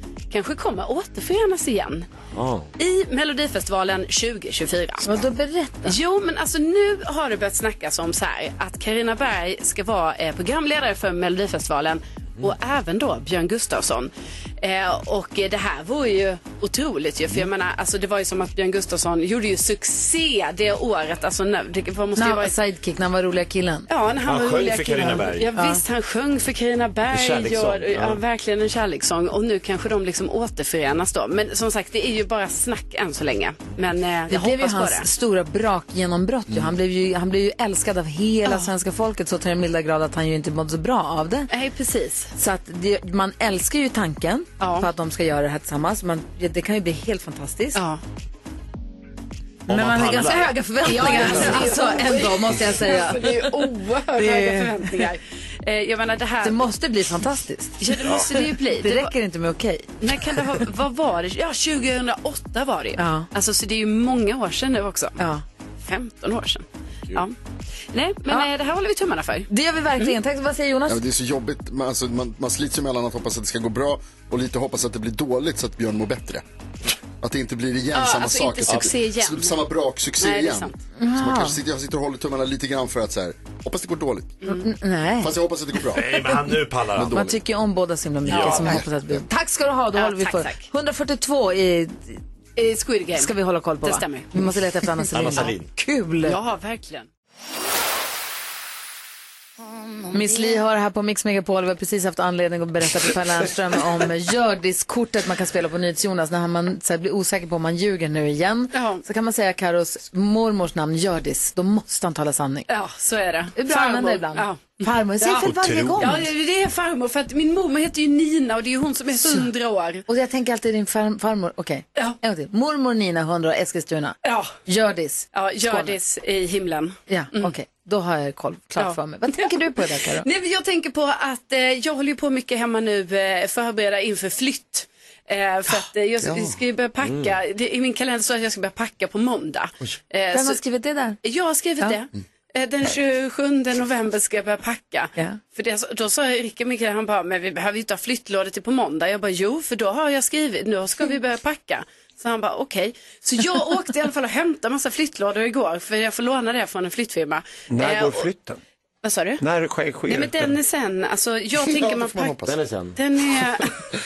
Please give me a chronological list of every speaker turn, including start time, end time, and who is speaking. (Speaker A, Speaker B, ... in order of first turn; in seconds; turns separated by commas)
Speaker A: 0.3-2.1, Speaker B: 2.3-2.7, Speaker A: 2.8-5.1, Speaker C: 5.0-6.0, Speaker A: 5.8-22.5, Speaker C: 22.2-23.9, Speaker A: 23.9-35.1, Speaker B: 24.2-25.5, Speaker C: 25.6-25.8, Speaker B: 27.1-28.2, Speaker C: 34.3-41.5, Speaker A: 38.4-38.7, Speaker A: 41.5-42.3, Speaker C: 42.3-47.8, Speaker A: 44.6-44.9, Speaker A: 47.7-48.0, Speaker B: 49.7-51.9, Speaker C: 49.7-55.0, Speaker A: 50.8-56.6, Speaker C: 56.4-58.2, Speaker A: 57.8-59.1, Speaker B: 58.0-58.3, Speaker C: 58.8-59.9, Speaker A: 60.0-65.2, Speaker C: 63.0-63.3, Speaker C: 65.2-65.4, Speaker A: 65.8-67.3, Speaker A: 67.9-70.1, Speaker C: 69.5-71.0, Speaker D: 70.9-76.4, Speaker D: 77.2-84.4, Speaker A: 77.9-79.6, Speaker A: 80.2-80.8, Speaker C: 81.0-81.6, Speaker A: 84.4-84.7, Speaker C: 84.5-85.3, Speaker D: 85.2-86.3, Speaker B: 85.9-87.2, Speaker D: 86.9-87.4, Speaker C: 87.1-92.2, Speaker B: 88.2-88.8, Speaker A: 88.3-88.8, Speaker D: 88.4-89.2, Speaker A: 89.9-90.7, Speaker A: 92.5-94.3, Speaker C: 93.1-96.4, Speaker B: 95.1-95.7, Speaker A: 96.2-97.1, Speaker C: 100.1-112.7, Speaker A: 108.7-109.0, Speaker A: 112.7-120.0, Speaker C: 113.5-116.3, Speaker E: 115.4-116.3, Speaker C: 119.2-119.5, Speaker C: 120.1-126.0, Speaker A: 124.2-124.5, Speaker A: 125.3-127.5, Speaker C: 127.1-130.3, Speaker A: 128.8-129.5, Speaker A: 130.1-140.6, Speaker D: 136.2-136.6, Speaker B: 137.0-137.3, Speaker C: 140.3-141.2, Speaker A: 141.2-158.2, Speaker E: 157.7-158.6, Speaker A: 159.0-159.4, Speaker E: 159.4-160.6, Speaker A: 160.1-163.7, Speaker D: 161.6-162.5, Speaker B: 162.4-163.0